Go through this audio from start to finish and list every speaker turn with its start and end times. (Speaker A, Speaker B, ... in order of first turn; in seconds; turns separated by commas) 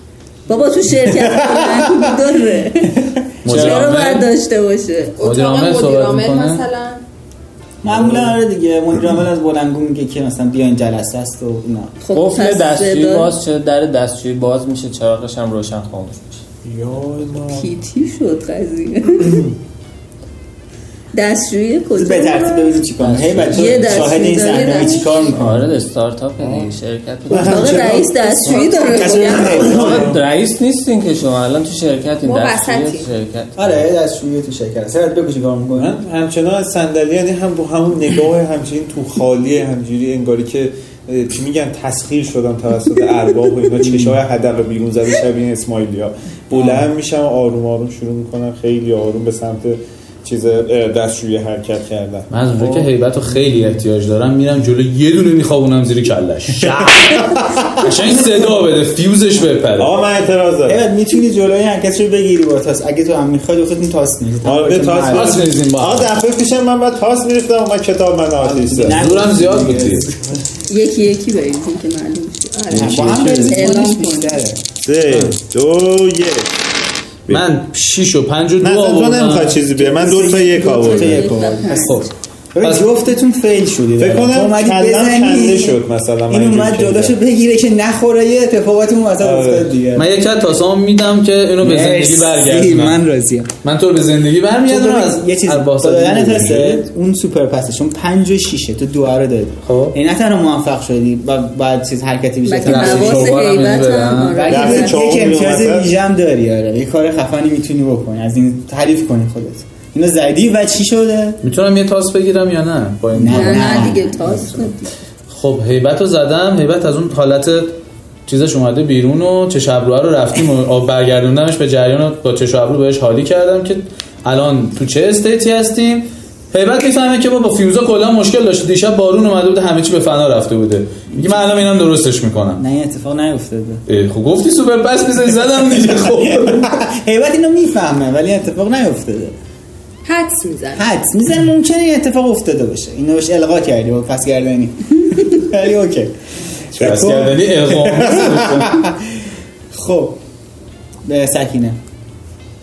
Speaker A: 0.5-5.2, Speaker B: 1.1-2.1, Speaker C: 3.4-4.3, Speaker D: 3.5-3.9, Speaker E: 5.2-7.0, Speaker C: 5.2-6.6, Speaker B: 7.8-8.3, Speaker F: 7.8-12.0, Speaker A: 12.0-13.3, Speaker D: 12.1-16.4, Speaker B: 16.6-17.7, Speaker A: 17.5-19.5, Speaker A: 21.1-22.8, Speaker F: 21.9-25.6, Speaker D: 23.0-23.9, Speaker A: 23.5-25.1, Speaker E: 24.3-25.3, Speaker D: 25.2-27.9, Speaker B: 26.4-26.7, Speaker B: 27.3-28.6, Speaker A: 27.3-29.6, Speaker F: 27.3-27.8, Speaker E: 28.0-29.6, Speaker F: 28.8-30.1, Speaker B: 29.5-30.2, Speaker D: 29.6-33.8, Speaker E: 32.2-33.1, Speaker F: 33.5-35.9, Speaker B: 35.8-52.3, Speaker F: 43.8-44.2, Speaker F: 46.5-46.9, Speaker C: 52.3-60.0, Speaker B: 56.6-57.7, Speaker B: 59.8-60.8, Speaker F: 60.6-65.3, Speaker B: 64.4-69.0, Speaker C: 65.1-66.1, Speaker F: 68.4-70.4, Speaker C: 68.9-70.1, Speaker A: 70.7-72.7, Speaker E: 72.5-73.2, Speaker B: 72.7-73.6, Speaker F: 72.7-74.6, Speaker A: 73.4-74.4, Speaker B: 74.8-76.5, Speaker C: 77.3-79.6, Speaker B: 78.6-81.4, Speaker F: 79.8-90.1, Speaker A: 79.9-82.0, Speaker C: 81.8-82.1, Speaker C: 82.6-82.9, Speaker B: 84.0-87.1, Speaker B: 89.2-89.7, Speaker C: 89.9-93.0, Speaker F: 91.6-93.5, Speaker C: 93.6-96.8, Speaker F: 94.7-103.4, Speaker C: 99.6-100.0, Speaker A: 102.5-105.0, Speaker C: 102.6-104.5, Speaker F: 104.3-111.4, Speaker B: 104.5-105.9, Speaker C: 111.4-114.7, Speaker F: 113.1-114.0, Speaker A: 113.3-114.9, Speaker C: 115.3-117.8, Speaker C: 118.3-132.6, Speaker F: 132.6-133.8, Speaker C: 133.9-136.7, Speaker F: 136.2-139.3, Speaker E: 140.0-140.8, Speaker F: 140.8-146.1, Speaker C: 146.8-148.6, Speaker B: 146.8-148.6, Speaker F: 148.0-149.0, Speaker F: 149.7-150.2, Speaker F: 151.0-151.8